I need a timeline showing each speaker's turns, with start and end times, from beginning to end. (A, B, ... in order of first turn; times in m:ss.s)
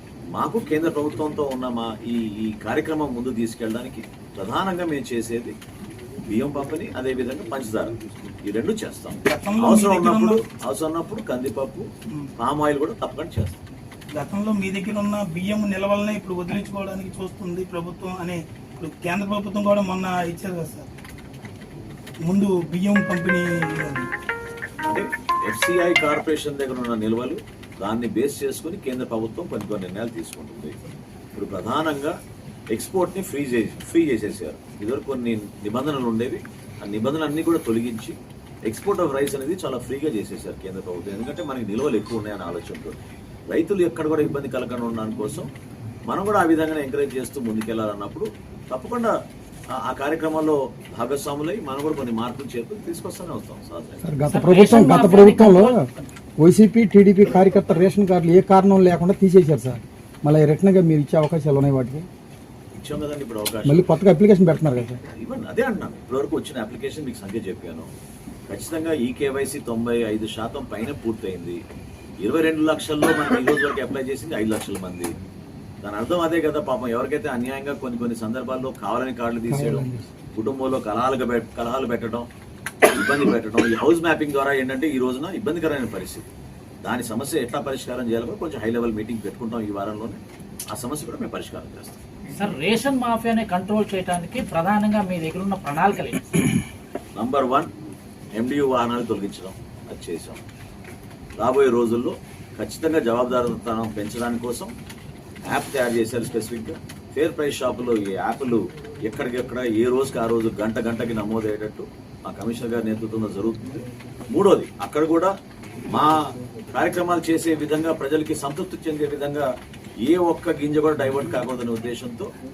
0:00.3-0:05.5 A
0:06.3-0:11.9 A
0:09.2-0:10.4 B
0:12.4-0:13.6 A
0:14.1-0:20.9 B
0:22.2-0:24.1 B
0:24.8-0:30.7 A
0:31.3-0:32.1 A
0:32.7-0:38.2 A
0:38.7-0:45.5 A
0:46.1-0:49.1 A
0:49.7-0:54.2 A
0:54.0-1:02.1 C
0:54.3-0:55.8 D
1:02.8-1:03.9 A
1:03.6-1:05.0 C
1:04.8-1:07.9 A
1:08.5-1:11.6 A
1:12.2-1:15.1 A
1:15.8-1:22.2 A
1:19.5-1:20.1 C
1:22.9-1:26.3 A
1:26.8-1:30.2 A
1:30.7-1:32.0 A
1:32.3-1:36.4 D
1:37.1-1:37.7 A
1:38.4-1:40.4 A
1:41.4-1:44.7 A
1:45.5-1:55.3 A
1:55.9-1:56.1 A
1:56.7-1:59.5 A
2:00.0-2:02.3 A